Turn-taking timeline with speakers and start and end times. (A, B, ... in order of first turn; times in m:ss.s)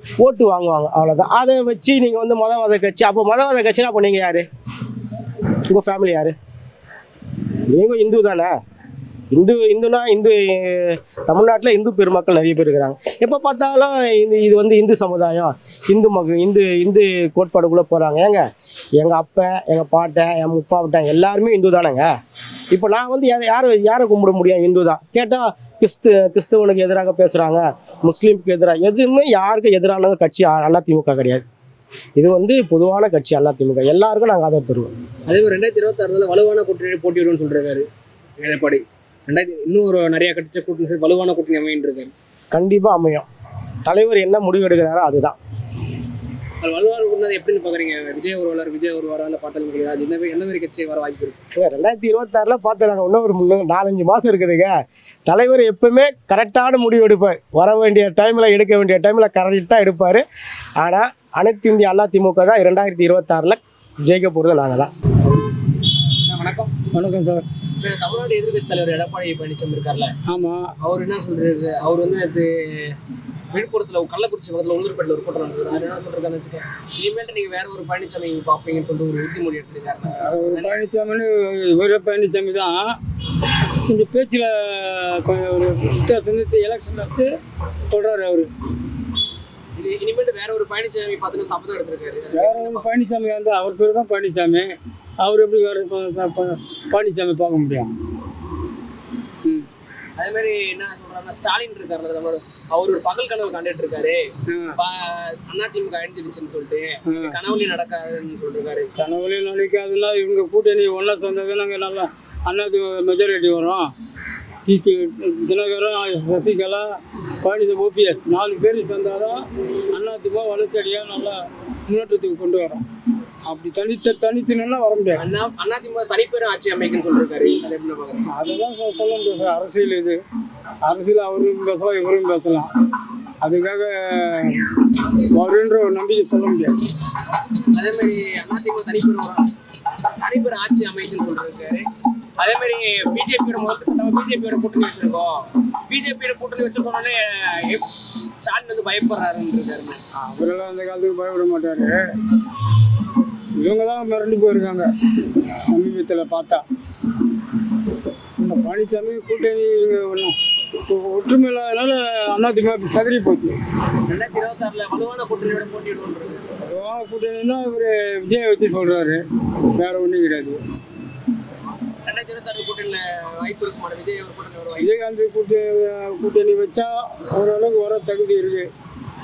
0:00.2-0:04.5 A
0:05.7-0:06.4 A
0:07.7-0:08.5 A
0:09.3-0:18.4 A
0:19.0-0:22.1 A
0:22.7-0:31.4 A
0:32.2-0:34.9 A
0:35.3-0:37.9 B
0:38.4-0:42.1 B
0:42.5-0:43.3 A
0:43.9-0:45.4 A
0:46.6-0:51.4 B
0:51.6-0:54.7 A
0:55.3-1:00.2 A
1:00.8-1:04.9 A
1:06.2-1:06.7 B
1:06.9-1:07.4 C
1:07.8-1:10.1 B
1:10.3-1:10.7 C
1:10.8-1:13.0 B
1:13.5-1:20.8 B
1:20.2-1:23.0 C
1:23.9-1:27.4 C
1:27.9-1:28.5 C
1:29.8-1:32.9 B
1:32.4-1:37.9 C
1:40.2-1:44.2 B
1:44.5-1:44.8 C
1:44.8-1:48.9 B
1:47.1-1:47.4 C
1:49.0-1:53.9 C
1:54.6-2:02.8 C
2:03.4-2:05.2 C
2:05.2-2:08.2 B
2:08.3-2:10.2 C
2:10.8-2:12.7 C
2:13.4-2:16.8 C
2:17.7-2:19.4 B
2:20.2-2:21.8 B
2:22.4-2:27.9 B
2:28.4-2:30.0 B
2:30.2-2:32.1 C
2:33.6-2:36.6 C
2:38.4-2:43.6 C
2:44.1-2:46.4 B
2:46.7-2:49.2 C
2:49.8-2:50.6 C
2:52.1-2:54.9 B
2:54.8-2:58.7 C